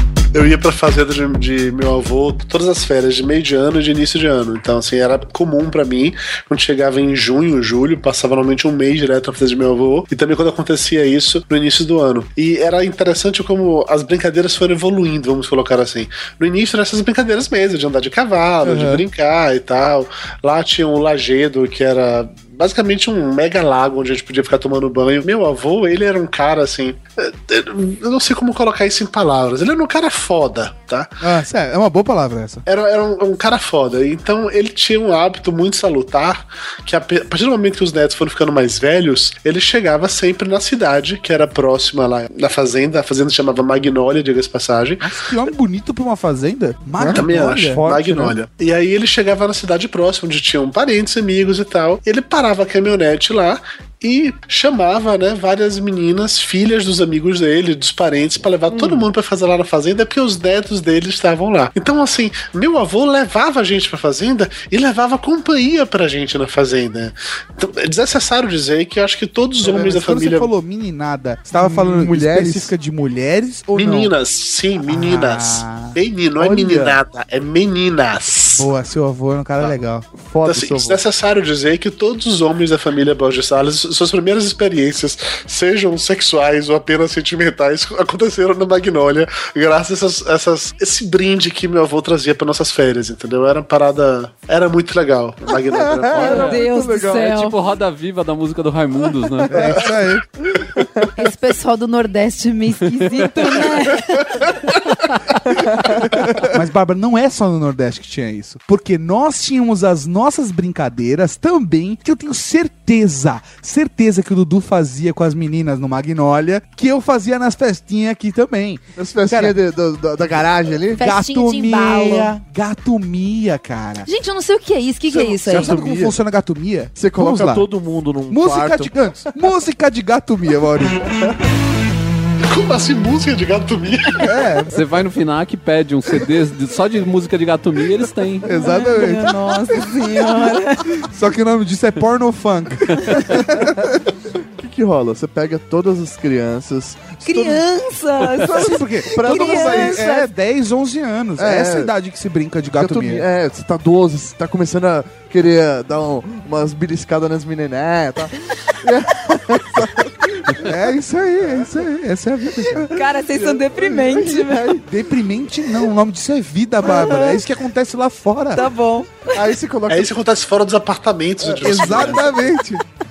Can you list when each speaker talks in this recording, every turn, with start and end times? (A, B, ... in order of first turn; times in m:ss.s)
0:00.3-0:31.1 A
0:18.6-0:19.1 B
0:31.2-0:32.6 B
0:32.7-0:45.1 A
0:45.0-0:47.8 B
0:47.0-0:48.4 C
0:47.1-1:10.5 A
1:09.6-1:14.1 B
1:11.6-1:12.7 C
1:13.8-1:18.7 A
1:14.9-1:16.0 B
1:16.4-1:17.0 C
1:18.5-1:20.1 B
1:20.1-1:21.0 C
1:20.4-1:36.4 A
1:35.7-1:37.4 C
1:36.2-1:37.6 D
1:37.3-1:39.7 E
1:39.5-1:39.9 C
1:39.5-1:40.3 B
1:40.6-1:41.1 C
1:41.2-1:44.5 D
1:46.1-1:59.6 B
1:59.0-2:01.0 C
2:01.0-2:02.3 D
2:01.0-2:04.1 B
2:04.1-2:05.8 D
2:05.1-2:07.7 B
2:05.4-2:06.2 C
2:07.0-2:08.9 C
2:08.3-2:11.0 B
2:12.5-2:14.3 A
2:14.2-2:14.8 B
2:14.7-2:18.5 E
2:18.4-2:19.7 B
2:18.6-2:20.9 D
2:20.9-2:24.0 B
2:24.6-2:27.6 C
2:27.2-2:30.3 D
2:28.4-2:30.1 C
2:28.5-2:33.3 B
2:31.4-2:31.9 C
2:32.8-2:40.7 C
2:40.5-2:42.9 B
2:42.6-2:44.8 C
2:42.9-2:44.7 D
2:44.8-2:48.7 B
2:46.9-2:47.4 D
2:48.5-2:49.4 D
2:49.3-2:50.2 C
2:49.9-2:52.4 A
2:51.4-2:52.4 C
2:51.6-2:52.8 B